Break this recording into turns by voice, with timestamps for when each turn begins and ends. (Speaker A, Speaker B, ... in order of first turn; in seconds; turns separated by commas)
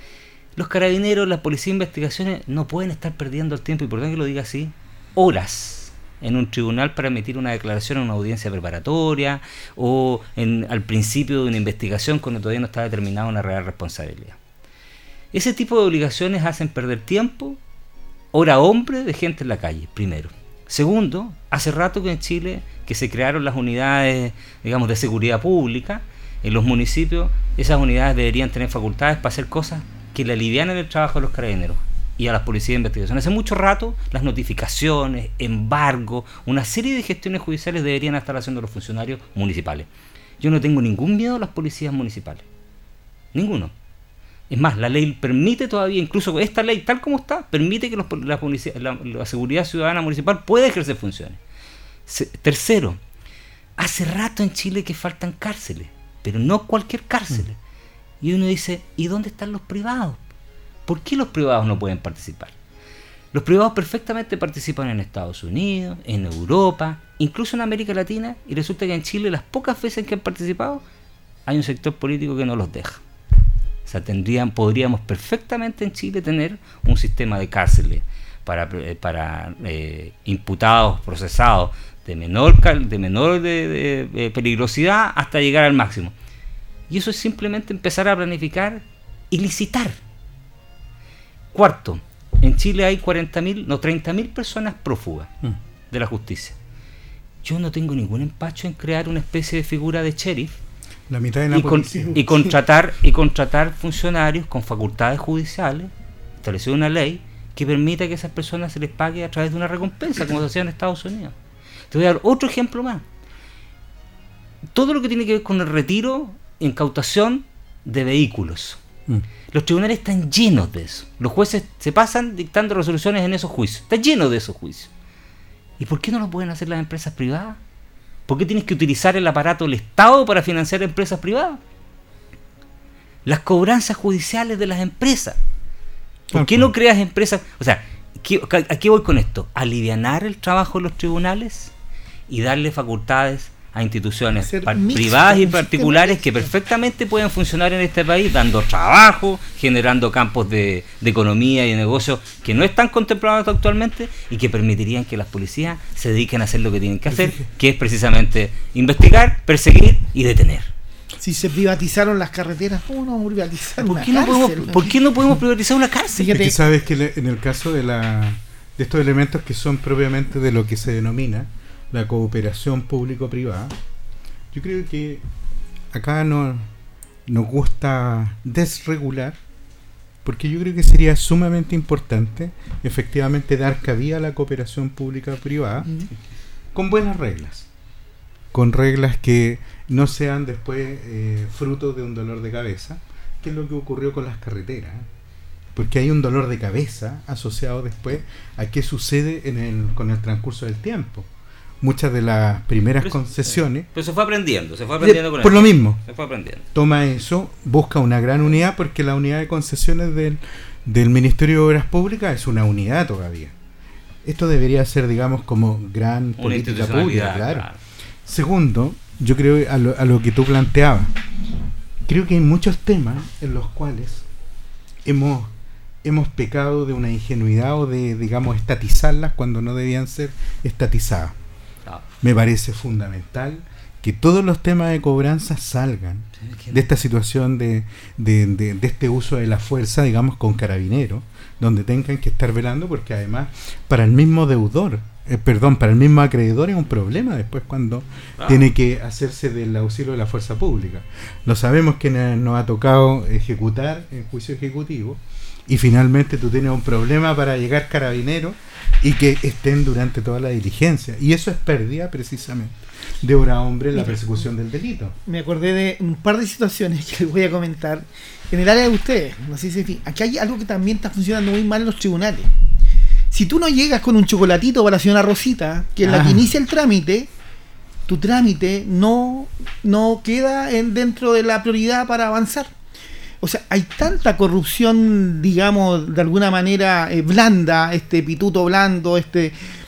Speaker A: 0.6-14.4, Speaker A: 15.3-17.6, Speaker A: 18.3-39.9, Speaker A: 40.4-42.4, Speaker A: 43.3-43.7, Speaker A: 44.5-51.4, Speaker A: 52.1-53.0, Speaker A: 53.8-57.6, Speaker A: 58.2-60.2, Speaker A: 60.9-62.5, Speaker A: 63.3-70.8, Speaker A: 71.5-73.0, Speaker A: 73.8-86.1, Speaker A: 86.9-90.0, Speaker A: 91.5-95.3, Speaker A: 95.9-96.5, Speaker A: 97.4-100.5, Speaker B: 101.1-102.2, Speaker A: 101.5-105.9, Speaker A: 106.4-111.3, Speaker A: 111.9-113.0, Speaker A: 114.7-118.8, Speaker A: 119.5-124.9, Speaker A: 125.8-127.6, Speaker A: 128.3-131.6, Speaker A: 133.2-135.4, Speaker B: 136.3-136.7, Speaker A: 136.3-141.7, Speaker A: 142.3-160.7, Speaker C: 144.3-146.5, Speaker B: 157.1-157.4, Speaker C: 161.2-164.9, Speaker A: 163.8-166.3, Speaker C: 166.2-166.6, Speaker B: 166.3-173.7, Speaker B: 174.5-175.2, Speaker B: 175.9-176.7, Speaker B: 177.3-179.4, Speaker B: 180.2-185.9, Speaker B: 186.7-187.7, Speaker B: 188.5-195.1, Speaker B: 195.7-201.3, Speaker B: 201.8-203.9, Speaker A: 203.0-206.6, Speaker B: 205.0-206.0, Speaker B: 206.7-213.5, Speaker B: 214.2-217.7, Speaker A: 216.4-217.8, Speaker B: 218.2-221.1, Speaker B: 222.1-224.2, Speaker B: 225.0-225.5, Speaker B: 226.0-231.3, Speaker B: 232.2-265.1, Speaker A: 236.4-236.8, Speaker A: 248.4-248.7, Speaker C: 263.9-264.2, Speaker C: 265.3-272.5, Speaker C: 273.3-277.3, Speaker B: 276.0-276.5, Speaker C: 278.1-282.7, Speaker C: 283.4-289.6